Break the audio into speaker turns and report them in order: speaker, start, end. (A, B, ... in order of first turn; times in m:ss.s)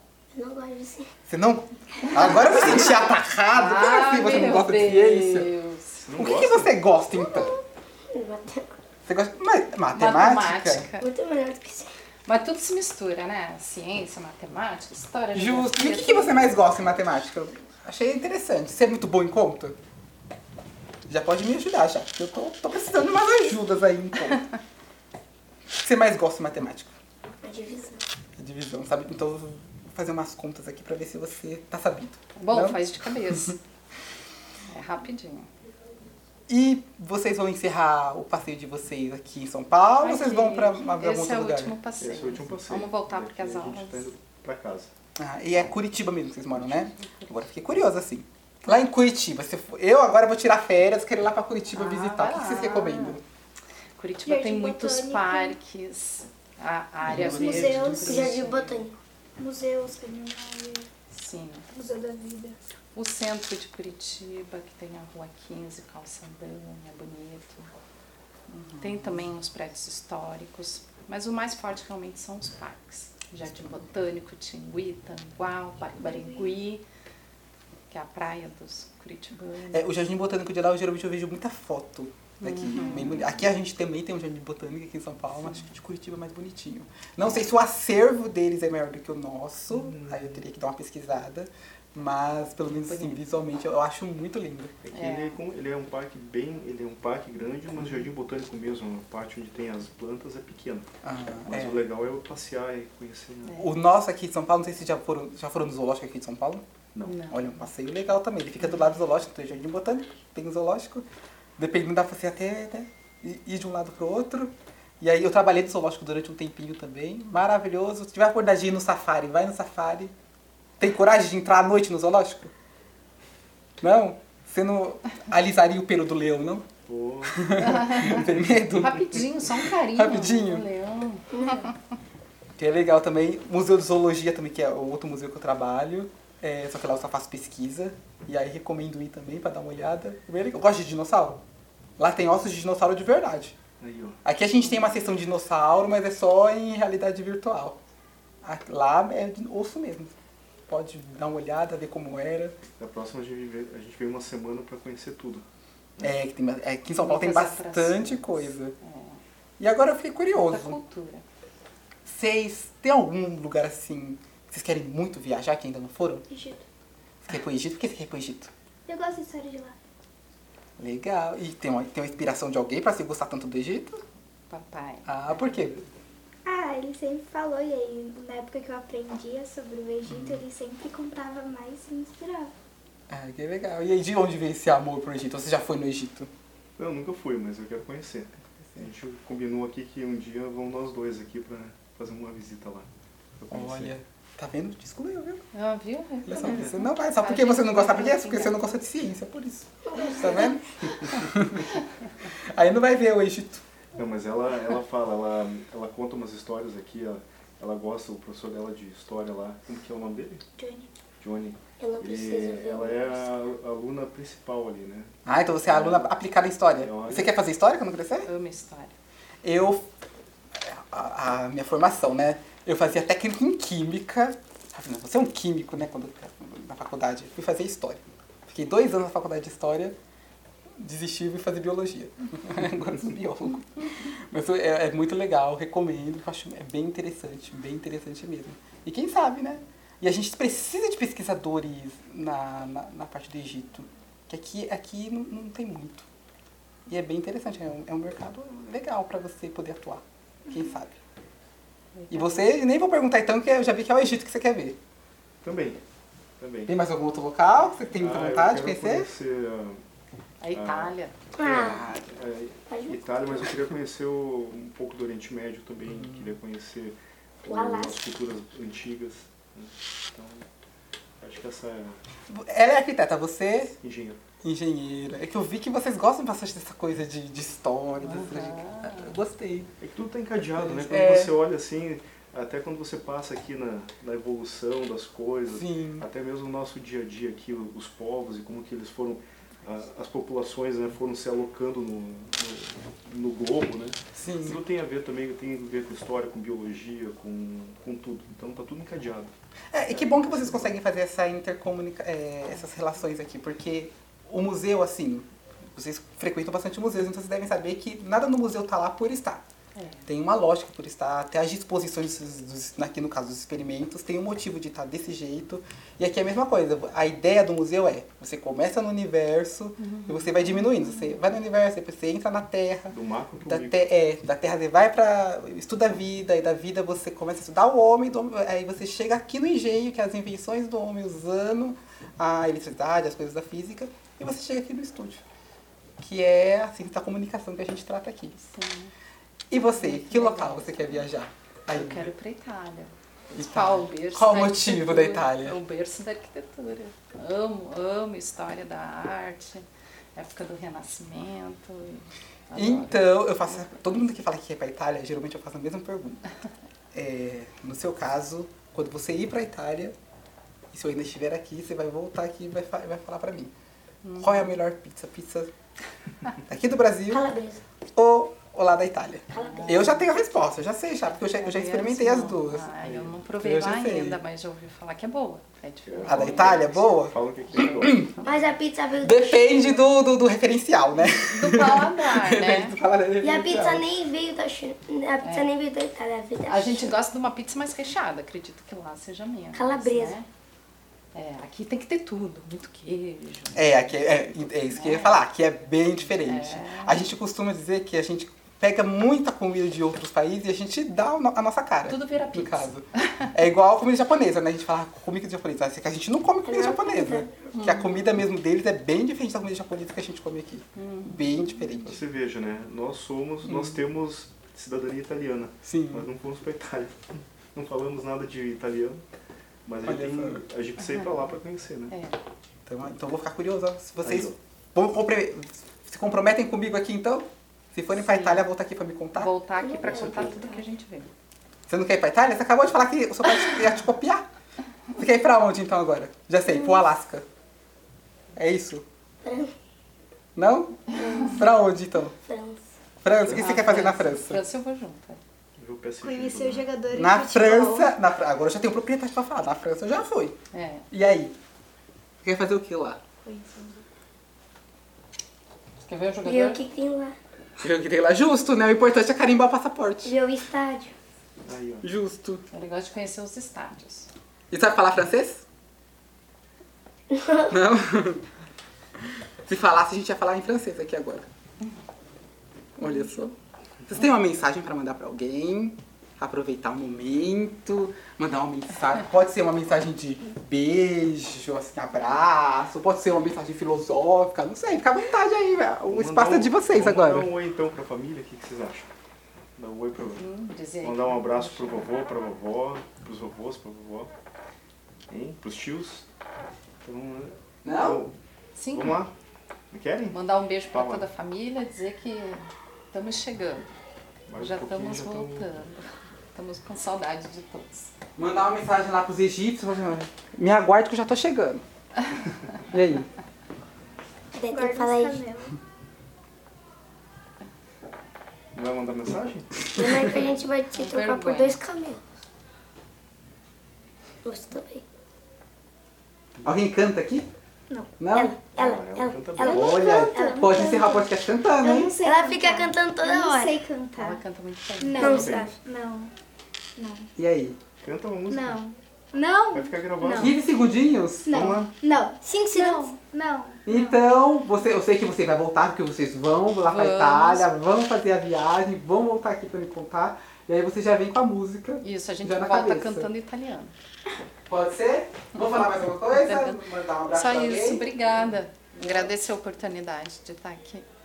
0:00.3-0:01.1 A
0:01.3-0:05.5 B
0:02.3-0:02.7 C
0:03.5-0:06.1 C
0:06.0-0:06.8 D
0:06.2-0:07.6 B
0:08.1-0:08.7 A
0:09.1-0:10.9 B
0:09.9-0:11.0 C
0:11.0-0:11.9 A
0:12.3-0:16.6 C
0:15.3-0:19.8 B
0:21.1-0:24.4 B
0:25.8-0:26.9 B
0:27.4-0:28.0 A
0:28.4-0:33.6 B
0:32.4-0:33.6 C
0:34.7-0:35.5 C
0:36.5-0:41.8 B
0:40.0-0:44.1 C
0:42.0-0:44.9 D
0:45.2-0:53.2 B
0:46.6-0:47.5 C
0:51.7-0:53.2 C
0:54.0-0:58.9 C
0:54.2-0:55.6 E
0:57.0-0:58.3 B
0:57.1-0:58.0 D
0:57.3-0:58.3 E
0:57.4-0:59.0 A
0:59.4-1:00.9 E
1:01.1-1:01.6 C
1:01.7-1:02.6 E
1:02.9-1:07.7 C
1:08.5-1:09.3 B
1:08.8-1:16.8 C
1:13.5-1:13.8 B
1:16.0-1:16.6 E
1:17.9-1:19.9 C
1:19.7-1:34.7 B
1:22.4-1:23.3 C
1:22.8-1:23.1 E
1:29.7-1:30.4 D
1:32.7-1:33.2 C
1:34.8-1:40.9 D
1:34.9-1:35.4 C
1:41.0-1:41.9 B
1:41.4-1:43.6 D
1:43.5-1:43.8 C
1:43.5-1:46.6 B
1:46.9-1:47.2 D
1:47.0-1:47.6 C
1:47.3-1:51.1 B
1:51.6-2:00.1 B
2:00.8-2:02.5 B
2:03.8-2:06.7 B
2:06.9-2:09.0 D
2:07.3-2:10.7 B
2:07.6-2:11.7 C
2:12.6-2:21.4 B
2:22.0-2:23.6 B
2:23.8-2:24.2 D
2:24.2-2:27.8 B
2:28.4-2:30.1 B
2:30.7-2:32.6 B
2:32.8-2:35.4 D
2:36.0-2:38.7 B
2:37.0-2:39.2 C
2:39.6-2:40.8 B
2:40.3-2:41.2 C
2:42.1-2:46.2 B
2:46.3-2:46.6 E
2:47.3-2:48.5 B
2:48.9-2:49.8 E
2:50.8-2:54.0 B
2:54.5-2:55.8 C
2:55.1-2:55.8 B
2:56.4-3:02.5 E
3:00.1-3:00.4 B
3:03.1-3:06.3 B
3:06.8-3:12.9 D
3:13.4-3:14.0 D
3:13.5-3:15.4 B
3:15.5-3:18.6 C
3:16.3-3:21.7 B
3:16.4-3:16.8 D
3:19.9-3:20.6 A
3:22.4-3:23.6 B
3:24.0-3:30.4 D
3:30.6-3:30.9 E
3:31.2-3:35.1 D
3:31.8-3:33.2 A
3:35.2-3:38.3 B
3:36.8-3:37.4 D
3:38.2-3:38.9 C
3:39.4-3:39.9 B
3:40.6-3:50.0 B
3:50.8-4:06.1 B
4:06.9-4:11.0 B
4:12.0-4:12.5 C
4:12.1-4:14.8 B
4:15.4-4:15.8 D
4:16.4-4:16.7 D
4:16.7-4:19.1 B
4:18.0-4:19.8 D
4:20.4-4:21.2 C
4:20.5-4:21.0 D
4:21.4-4:21.9 A
4:21.4-4:22.2 B
4:22.1-4:30.5 D
4:22.7-4:23.5 A
4:25.9-4:26.4 B
4:27.5-4:28.0 A
4:31.2-4:32.0 D
4:32.3-4:33.8 B
4:33.8-4:34.2 D
4:34.4-4:39.7 B
4:38.0-4:39.1 C
4:39.8-4:59.3 D
4:40.6-4:41.4 B
4:45.5-4:46.1 B
4:54.2-4:54.6 B
4:59.7-5:09.4 B
4:59.9-5:00.8 D
5:09.8-5:10.1 C
5:10.1-5:23.0 B
5:19.8-5:20.8 C
5:22.9-5:23.8 D
5:23.5-5:35.2 B
5:36.0-5:38.4 B
5:38.4-5:38.9 C
5:39.5-5:42.1 B
5:39.5-5:41.0 C
5:41.7-5:53.8 C
5:43.4-5:45.6 B
5:52.5-5:56.2 B
5:56.9-5:59.9 B
6:00.7-6:03.5 B
6:04.0-6:04.5 C
6:04.2-6:05.5 B
6:06.4-6:07.2 B
6:07.1-6:07.6 A
6:08.0-6:12.7 B
6:09.3-6:09.8 A
6:09.4-6:10.0 C
6:11.2-6:16.8 C
6:12.8-6:13.2 D
6:13.4-6:14.2 B
6:15.9-6:18.1 D
6:16.0-6:18.1 B
6:17.6-6:18.5 C
6:18.2-6:19.5 A
6:19.0-6:23.9 B
6:21.1-6:22.8 C
6:23.2-6:27.0 A
6:25.2-6:25.5 C
6:26.5-6:30.3 C
6:29.5-6:30.2 A
6:31.1-6:33.8 C
6:33.5-6:52.0 B
6:34.7-6:35.2 C
6:36.1-6:37.1 C
6:41.9-6:43.2 C
6:46.4-6:47.4 A
6:47.5-6:47.9 C
6:50.8-6:51.3 C
6:51.8-6:57.0 D
6:53.4-6:53.8 B
6:55.6-6:56.1 B
6:57.5-6:59.0 D
6:59.6-7:02.0 D
6:59.9-7:00.4 B
7:01.9-7:02.2 C
7:02.7-7:09.3 B
7:04.0-7:04.4 D
7:07.9-7:08.5 C
7:09.2-7:11.1 C
7:09.6-7:10.6 A
7:09.8-7:10.5 D
7:11.7-7:14.3 B
7:14.9-7:17.2 B
7:18.4-7:18.8 B
7:19.2-7:19.5 A
7:20.4-7:22.2 B
7:21.0-7:21.4 A
7:22.2-7:22.6 A
7:23.0-7:24.4 B
7:23.2-7:23.6 D
7:23.3-7:25.2 C
7:25.6-7:26.7 D
7:26.0-7:27.9 E
7:27.0-7:30.4 B
7:30.5-7:30.9 C
7:30.9-7:31.4 B
7:32.2-7:33.0 B
7:33.2-7:33.8 E
7:35.8-7:36.6 C
7:36.2-7:37.2 A
7:37.6-7:40.2 B
7:40.0-7:40.9 A
7:41.4-7:41.9 D
7:41.8-7:42.4 B
7:42.5-7:44.1 C
7:44.5-7:45.4 B
7:47.1-7:47.6 A
7:47.5-7:48.2 B
7:49.5-7:51.3 B
7:52.8-8:07.3 B
8:05.9-8:08.9 D
8:09.6-8:10.2 D
8:10.2-8:11.9 C
8:10.8-8:14.1 D
8:15.1-8:16.1 D
8:16.8-8:18.1 D
8:17.6-8:18.0 B
8:18.6-8:19.0 C
8:18.7-8:19.1 D
8:19.7-8:21.1 D
8:20.1-8:23.7 C
8:24.3-8:25.6 D
8:24.4-8:27.9 C
8:28.2-8:31.6 B
8:32.7-8:33.1 B
8:34.3-8:35.2 A
8:34.4-8:35.6 E
8:38.6-8:39.6 D
8:39.7-8:42.0 A
8:40.7-8:41.6 C
8:44.2-8:44.8 A
8:46.4-8:47.3 B
8:47.7-8:48.0 E
8:48.0-8:48.4 B
8:48.1-8:50.8 A
8:48.6-8:49.9 D
8:49.4-8:54.2 E
8:49.4-8:51.9 B
8:52.0-8:53.6 A
8:54.0-8:55.3 C
8:54.8-8:56.1 E
8:55.0-8:55.6 A
8:55.0-8:55.6 D
8:56.8-8:57.1 E
8:57.2-8:57.6 B
8:57.8-8:58.6 D
8:58.3-9:00.4 E
8:59.5-9:00.4 D
9:00.1-9:01.6 B
9:01.2-9:04.0 E
9:01.3-9:01.8 D
9:02.2-9:03.0 A
9:03.7-9:13.1 B
9:06.7-9:07.5 C
9:11.8-9:13.7 C
9:14.5-9:19.1 B
9:16.1-9:20.8 C